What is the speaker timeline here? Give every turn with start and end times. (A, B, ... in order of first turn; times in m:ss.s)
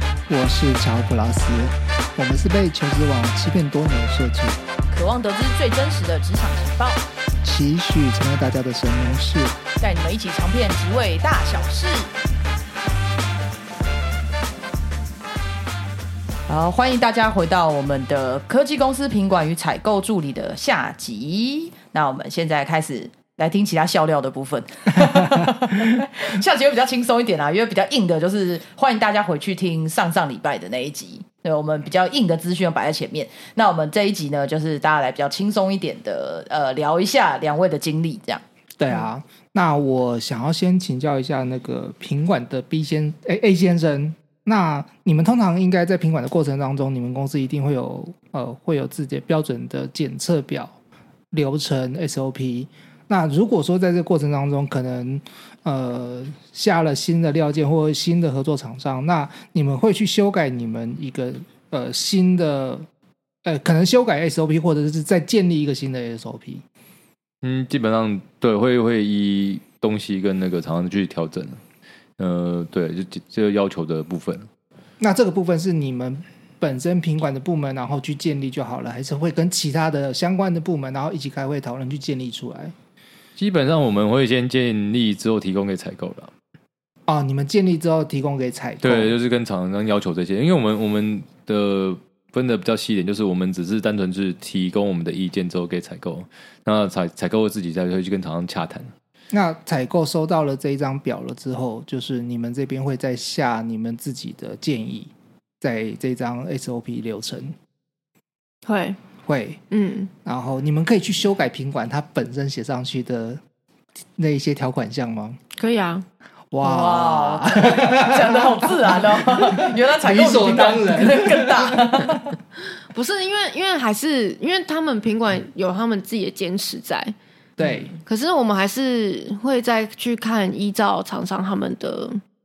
0:00.3-0:04.6 A
0:04.9-0:07.0 B
0:07.4-0:09.6 A
0:09.8-0:12.1 B
0:16.5-0:38.4 B
0:38.8-0:50.8 A
0:51.3-1:02.9 A
1:03.4-1:06.6 A
1:07.4-1:11.6 C
1:12.2-1:14.5 C
1:15.0-1:22.7 A
1:23.4-1:26.3 C
1:27.1-1:29.2 A
1:28.8-1:38.9 C
1:39.3-1:47.6 A
1:48.7-1:49.0 D
1:49.2-1:49.6 A
1:49.7-1:50.1 D
1:50.2-1:53.4 A
1:54.2-1:55.4 A
1:55.6-1:56.1 D
1:56.5-2:02.0 A
1:56.6-2:02.3 B
2:02.9-2:07.2 D
2:07.6-2:07.9 A
2:07.6-2:08.0 B
2:08.0-2:12.2 D